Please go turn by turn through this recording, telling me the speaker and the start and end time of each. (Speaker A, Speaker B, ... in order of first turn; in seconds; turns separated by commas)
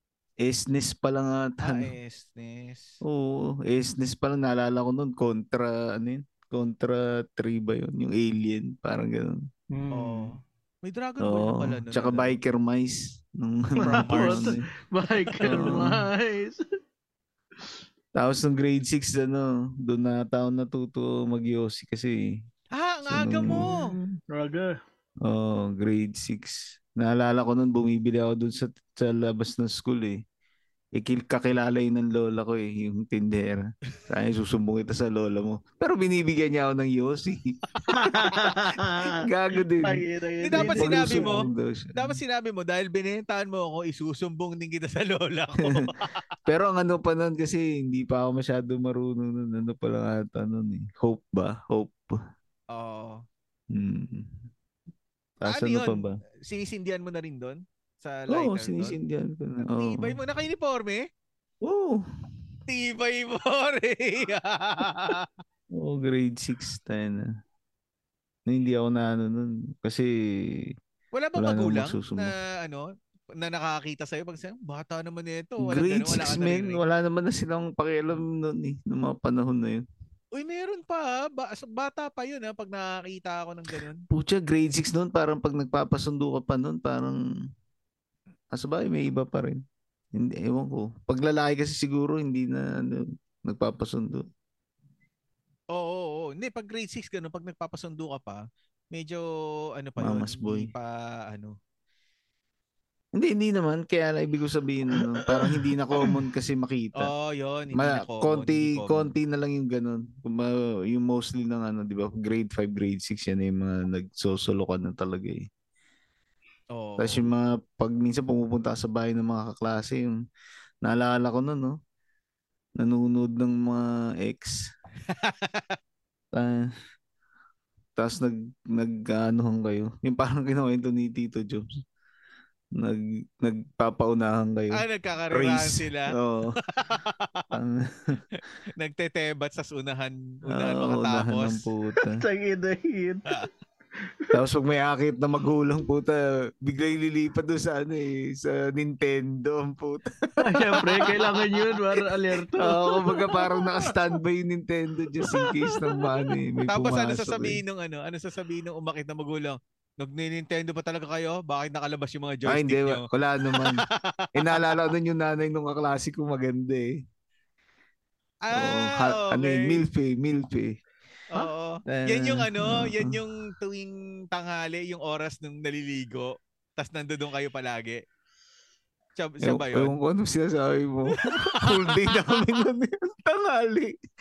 Speaker A: 0.4-1.9, Speaker B: 1.6-3.0, Speaker A: 3.0-9.4, Speaker C: 9.7-10.3, Speaker B: 9.9-12.4, Speaker A: 11.2-14.6, Speaker B: 13.8-14.6, Speaker C: 13.8-16.6, Speaker B: 15.2-15.8, Speaker A: 15.4-16.0, Speaker A: 18.2-22.4, Speaker B: 22.8-23.9, Speaker A: 23.1-23.7, Speaker C: 23.4-24.8, Speaker A: 25.2-30.2, Speaker A: 30.9-40.0, Speaker C: 37.9-39.2, Speaker C: 39.8-41.5, Speaker B: 40.4-41.4, Speaker A: 40.5-42.2, Speaker B: 42.0-46.2, Speaker A: 46.5-52.2, Speaker B: 52.7-53.2, Speaker A: 53.7-54.4, Speaker A: 55.4-56.2, Speaker B: 55.5-59.0, Speaker A: 58.3-60.2, Speaker B: 59.6-61.0, Speaker A: 61.6-62.0, Speaker B: 62.7-65.3, Speaker A: 65.7-67.3, Speaker A: 68.5-70.7, Speaker B: 71.1-76.8, Speaker A: 71.4-72.3, Speaker A: 75.6-79.8, Speaker B: 80.3-84.0, Speaker A: 84.1-87.2, Speaker A: 88.5-89.6, Speaker A: 90.1-94.2, Speaker B: 95.7-99.2, Speaker B: 99.8-101.6, Speaker A: 100.0-100.7, Speaker A: 103.2-107.1, Speaker C: 105.3-106.2, Speaker B: 107.0-109.1, Speaker A: 107.7-115.5, Speaker B: 116.7-117.3, Speaker A: 117.0-120.2, Speaker A: 120.8-121.8, Speaker A: 122.8-124.6, Speaker B: 125.1-125.8, Speaker A: 126.3-126.7, Speaker A: 128.0-131.7, Speaker A: 132.8-136.6, Speaker B: 134.7-136.2, Speaker B: 136.7-137.5, Speaker A: 137.5-138.2, Speaker B: 138.3-141.7, Speaker A: 140.5-142.2, Speaker C: 142.0-143.3, Speaker A: 144.3-151.4, Speaker C: 150.4-153.9, Speaker A: 152.6-157.6, Speaker C: 155.2-156.3, Speaker B: 156.7-164.8, Speaker A: 162.5-163.8, Speaker A: 164.3-167.0, Speaker B: 168.4-169.8, Speaker A: 168.5-170.8, Speaker B: 171.3-178.0, Speaker A: 171.9-173.2, Speaker B: 179.2-179.9, Speaker A: 179.4-184.0, Speaker B: 181.3-182.3